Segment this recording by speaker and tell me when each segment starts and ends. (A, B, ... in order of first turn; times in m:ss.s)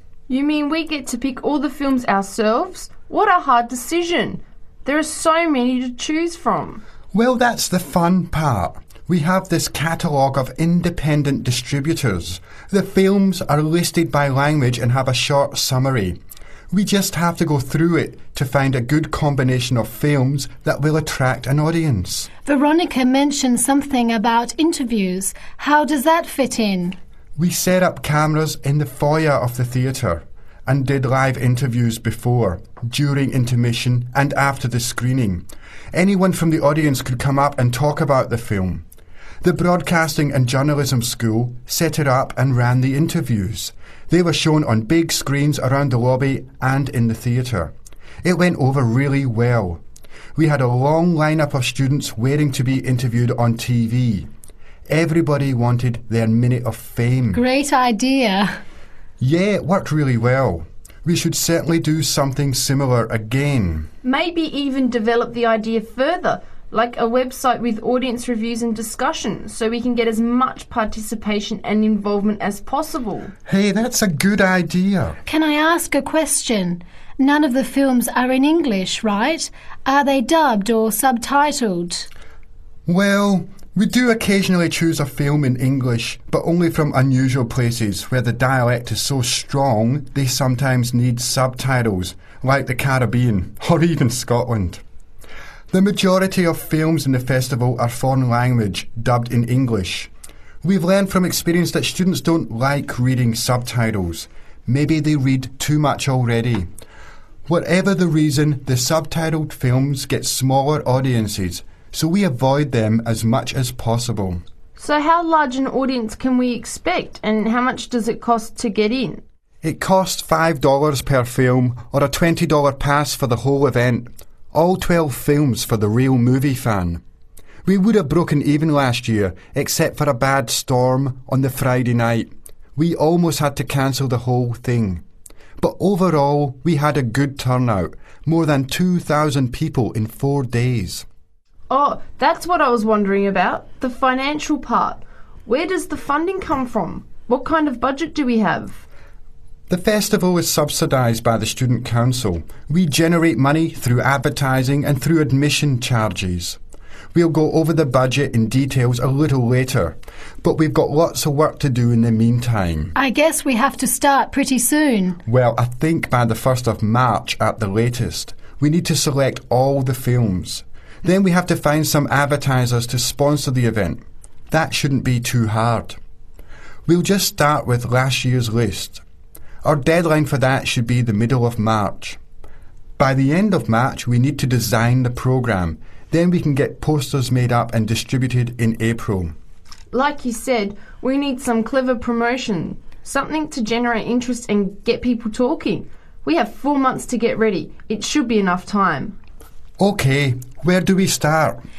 0:00.3-0:06.8 A
0:07.1-0:16.2 B
0:16.7-0:22.3 B
0:22.4-0:27.0 C
0:27.4-0:38.8 B
0:39.4-0:49.8 B
0:50.4-0:54.3 B
0:54.9-0:57.4 B
0:57.3-0:58.6 C
0:59.2-1:03.9 B
1:04.0-1:13.3 A
1:13.4-1:15.2 B
1:15.2-1:22.1 C
1:22.8-1:34.8 B
1:35.7-1:40.1 B
1:40.6-1:46.7 B
1:47.4-1:54.4 B
1:54.8-1:59.2 A
1:59.6-2:07.0 B
2:07.6-2:15.0 B
2:15.6-2:21.0 B
2:21.7-2:28.8 A
2:29.7-2:36.6 B
2:37.1-2:42.9 B
2:43.0-2:45.2 C
2:45.2-2:56.0 B
2:56.8-2:59.0 B
2:59.6-3:02.2 B
3:03.0-3:09.3 B
3:09.9-3:19.2 A
3:19.8-3:21.6 B